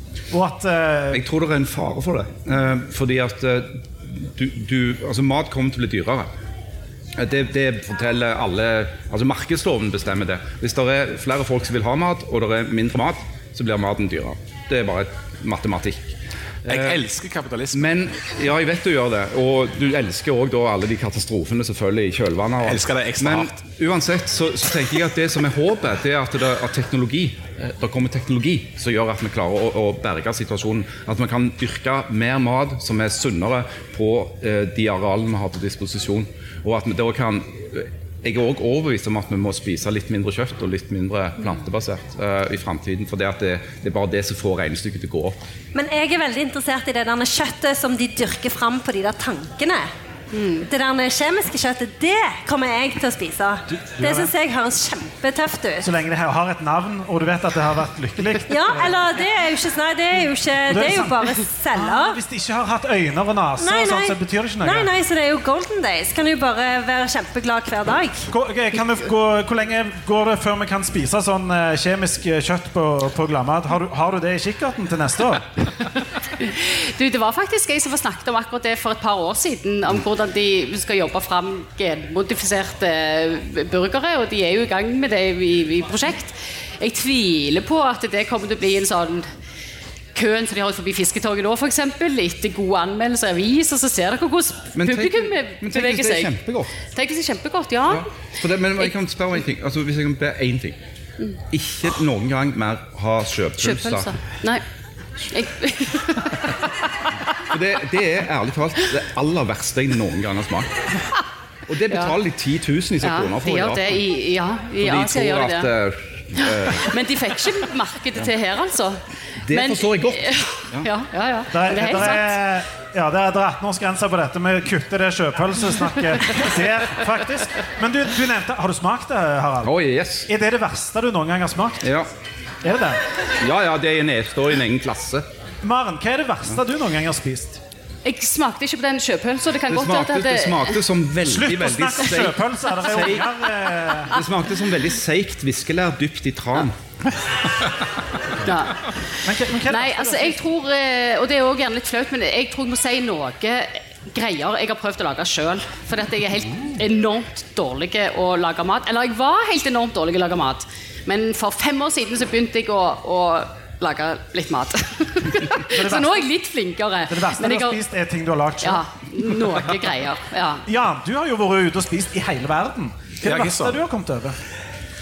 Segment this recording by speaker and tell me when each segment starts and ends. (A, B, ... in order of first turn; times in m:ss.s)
0:00.3-0:01.2 A
0:01.1-0:06.3 B
0:07.2-0:17.0 B
0:16.7-0:17.9 C
0:17.7-0:45.4 B
0:22.6-0:23.6 C
0:45.7-0:49.9 D
0:50.3-0:50.6 E
0:50.6-0:55.9 D
0:53.7-0:54.3 A
0:55.8-0:58.9 A
0:58.5-1:02.2 D
1:00.7-1:04.9 A
1:03.6-1:08.3 D
1:08.3-1:15.5 A
1:16.4-1:29.3 E
1:30.1-1:38.1 E
1:34.8-1:36.7 B
1:37.9-1:40.8 B
1:41.5-1:44.1 B
1:43.6-1:44.6 E
1:45.3-1:46.6 E
1:47.4-1:50.7 B
1:51.7-1:54.0 B
1:53.0-1:55.7 E
1:54.8-1:56.9 B
1:56.4-2:02.4 E
1:59.4-2:00.9 B
2:01.5-2:09.7 A
2:09.6-2:10.3 B
2:10.3-2:11.9 A
2:11.8-2:12.1 B
2:12.6-2:13.0 A
2:13.4-2:15.2 B
2:15.6-2:17.6 A
2:18.0-2:20.8 E
2:19.7-2:23.3 B
2:21.2-2:24.1 A
2:24.1-2:26.8 B
2:28.4-2:28.9 E
2:29.2-2:30.4 A
2:29.6-2:47.8 E
2:45.7-2:46.2 A
2:47.1-2:48.8 A
2:48.6-2:50.6 E
2:50.7-2:54.4 A
2:53.2-2:53.8 C